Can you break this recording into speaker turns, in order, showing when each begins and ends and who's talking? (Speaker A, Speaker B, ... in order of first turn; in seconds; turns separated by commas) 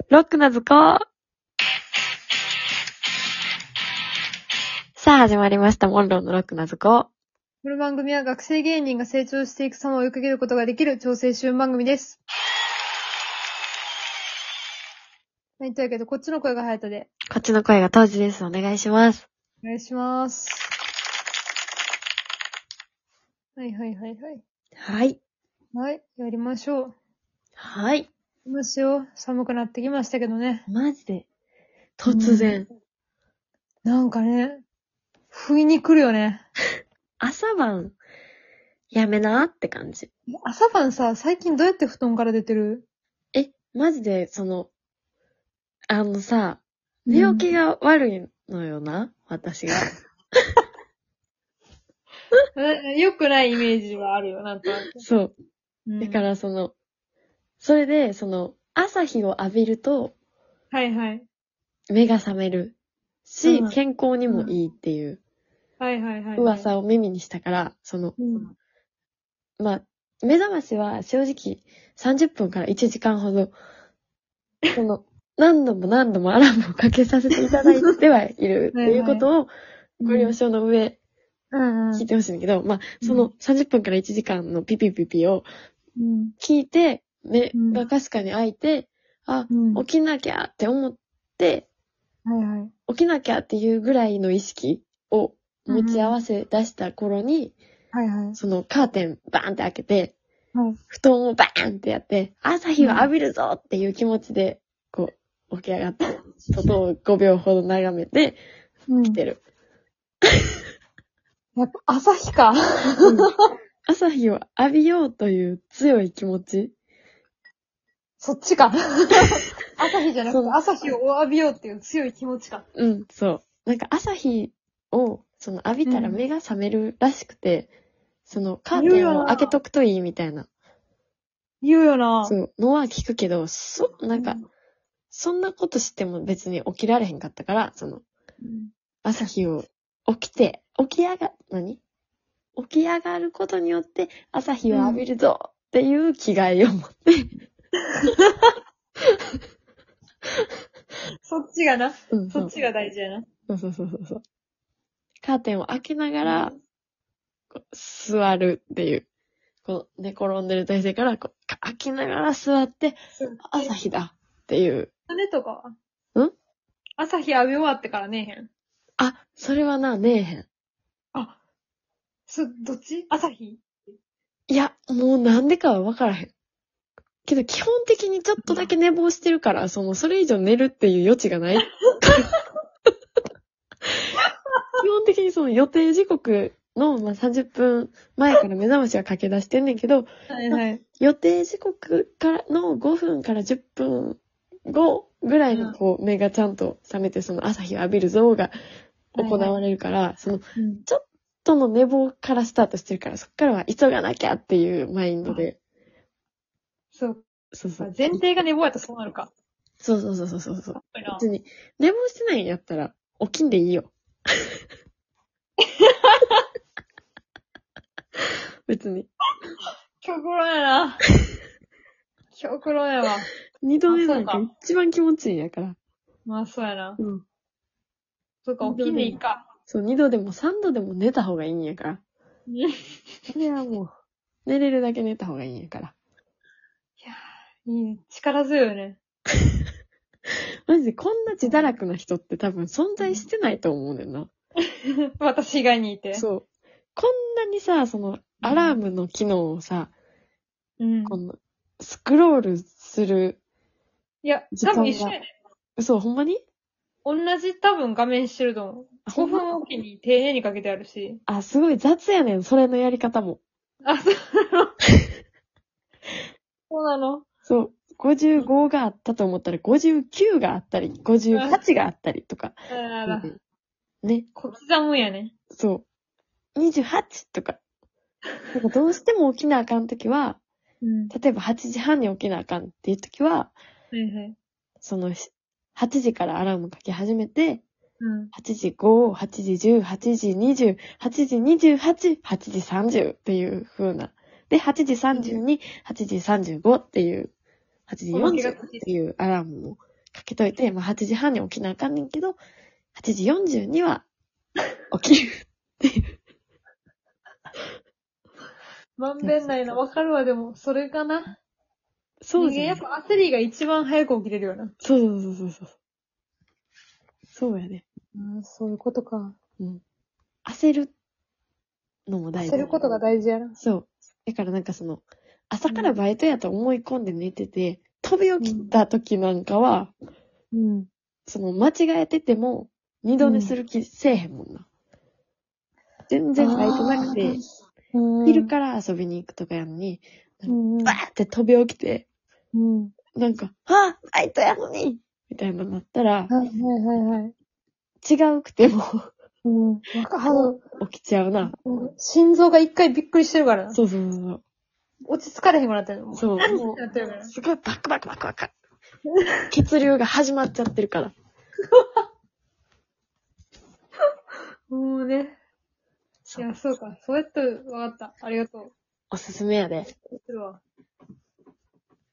Speaker A: 0.1-1.1, Speaker A: 5.0-7.1, Speaker B: 7.6-12.2, Speaker B: 15.6-17.1, Speaker A: 17.3-19.3, Speaker B: 19.6-20.7, Speaker B: 23.6-24.4, Speaker A: 24.8-25.2, Speaker B: 25.7-26.9, Speaker A: 27.6-28.1, Speaker B: 28.5-30.6, Speaker A: 30.7-31.3, Speaker A: 32.0-32.7, Speaker B: 32.1-32.6, Speaker B: 33.9-34.6, Speaker B: 35.3-36.5, Speaker A: 37.2-38.0, Speaker A: 38.9-40.1, Speaker B: 40.4-42.9, Speaker A: 43.3-44.7, Speaker A: 45.9-49.9, Speaker B: 47.1-47.5, Speaker B: 52.6-55.0, Speaker A: 55.0-55.3, Speaker B: 55.9-56.2, Speaker A: 56.0-56.7, Speaker A: 57.6-60.1, Speaker B: 60.7-61.3, Speaker A: 61.9-65.2, Speaker B: 63.4-63.8, Speaker B: 64.3-64.5, Speaker B: 65.8-66.7, Speaker A: 66.4-68.2, Speaker B: 68.2-68.5, Speaker A: 69.6-73.5, Speaker A: 74.8-81.0, Speaker B: 77.4-77.9, Speaker B: 78.7-79.3, Speaker B: 80.0-80.4, Speaker B: 81.5-82.1, Speaker A: 81.9-85.5, Speaker B: 83.0-83.3, Speaker B: 86.0-86.3, Speaker A: 86.4-91.7, Speaker B: 87.5-87.8, Speaker B: 89.5-89.8, Speaker B: 92.3-92.7, Speaker A: 92.9-97.6, Speaker B: 95.7-96.2, Speaker B: 97.9-98.4, Speaker A: 98.4-100.2, Speaker A: 100.9-108.4, Speaker B: 102.8-103.1, Speaker B: 108.9-109.2, Speaker A: 109.1-109.4, Speaker B: 111.6-113.4, Speaker A: 113.0-113.3, Speaker A: 113.9-116.7, Speaker B: 118.2-122.7, Speaker A: 120.3-120.6, Speaker A: 122.8-127.7, Speaker B: 125.9-126.2, Speaker A: 128.3-130.5, Speaker B: 128.8-129.6, Speaker B: 131.6-132.4, Speaker A: 132.2-134.4, Speaker B: 134.2-134.5, Speaker A: 135.1-138.1, Speaker B: 138.4-138.7, Speaker A: 139.0-141.8, Speaker A: 142.6-147.3, Speaker B: 144.7-145.0, Speaker B: 148.0-148.4, Speaker B: 151.3-153.3, Speaker A: 152.1-152.5, Speaker A: 153.5-154.2, Speaker A: 155.2-156.6, Speaker B: 156.2-156.5, Speaker A: 157.5-159.1, Speaker A: 159.7-164.9, Speaker B: 163.2-163.8, Speaker B: 165.1-165.8, Speaker B: 167.0-168.5, Speaker A: 169.0-170.5, Speaker B: 172.3-173.7, Speaker A: 174.5-176.3, Speaker A: 177.2-182.3, Speaker B: 178.4-178.7, Speaker B: 181.9-182.4, Speaker A: 184.8-198.5, Speaker B: 190.3-190.8, Speaker B: 195.5-195.8, Speaker A: 199.1-205.6, Speaker B: 199.2-199.6, Speaker B: 200.6-200.9, Speaker B: 206.9-207.2, Speaker A: 207.5-208.2, Speaker B: 207.8-209.3, Speaker A: 209.8-213.9, Speaker B: 210.7-211.2, Speaker B: 215.7-216.4, Speaker A: 218.7-219.1, Speaker B: 220.0-221.0, Speaker B: 222.3-223.3, Speaker A: 223.6-225.8, Speaker B: 223.9-224.4, Speaker B: 226.3-227.0, Speaker A: 227.0-227.2, Speaker B: 228.4-229.4, Speaker A: 228.6-232.0, Speaker B: 232.5-232.8, Speaker A: 233.3-233.9, Speaker A: 234.4-235.9, Speaker B: 237.0-239.0, Speaker A: 240.7-244.3, Speaker B: 243.0-243.3, Speaker B: 245.2-246.3, Speaker A: 246.1-246.4, Speaker A: 247.0-249.9, Speaker B: 248.4-248.8, Speaker B: 250.8-251.2, Speaker A: 251.1-253.4, Speaker B: 254.2-255.3, Speaker A: 254.5-255.2, Speaker A: 255.8-256.4, Speaker B: 257.1-261.2, Speaker A: 259.1-259.5, Speaker A: 261.3-263.4, Speaker B: 263.9-264.8, Speaker B: 266.7-267.2, Speaker A: 267.5-273.4, Speaker B: 271.3-271.6, Speaker B: 272.7-273.3, Speaker B: 274.4-275.3, Speaker A: 275.5-275.9, Speaker A: 276.6-277.6, Speaker A: 278.5-280.4, Speaker B: 280.8-281.1, Speaker A: 281.1-283.5, Speaker B: 283.9-284.4, Speaker A: 284.8-287.6, Speaker B: 288.0-288.3, Speaker A: 288.3-297.3, Speaker B: 295.1-295.4, Speaker A: 297.9-302.4, Speaker B: 298.1-298.8, Speaker A: 302.9-304.1, Speaker A: 304.9-306.0, Speaker B: 309.0-311.3, Speaker A: 309.2-309.8, Speaker A: 312.2-312.8, Speaker B: 312.4-314.7, Speaker A: 314.8-315.7, Speaker A: 317.3-317.8, Speaker B: 318.1-319.4, Speaker A: 320.4-320.9, Speaker A: 322.1-322.9, Speaker B: 322.4-323.6, Speaker A: 323.6-329.9, Speaker B: 325.7-325.9, Speaker B: 328.4-328.7, Speaker B: 330.5-330.9, Speaker A: 331.3-334.7, Speaker B: 333.2-333.6, Speaker A: 336.1-337.4, Speaker B: 336.4-337.4, Speaker B: 337.9-338.5, Speaker A: 338.2-342.1, Speaker B: 340.5-341.0, Speaker B: 342.5-342.9, Speaker A: 343.1-346.3, Speaker B: 346.3-347.3, Speaker A: 348.0-349.1, Speaker B: 349.4-350.6, Speaker A: 350.7-351.5, Speaker B: 351.4-353.8, Speaker A: 353.7-354.4, Speaker B: 355.1-357.3, Speaker A: 356.1-358.5, Speaker A: 359.5-361.1, Speaker B: 364.7-365.4, Speaker B: 366.4-368.7, Speaker A: 369.1-369.9, Speaker B: 370.1-370.6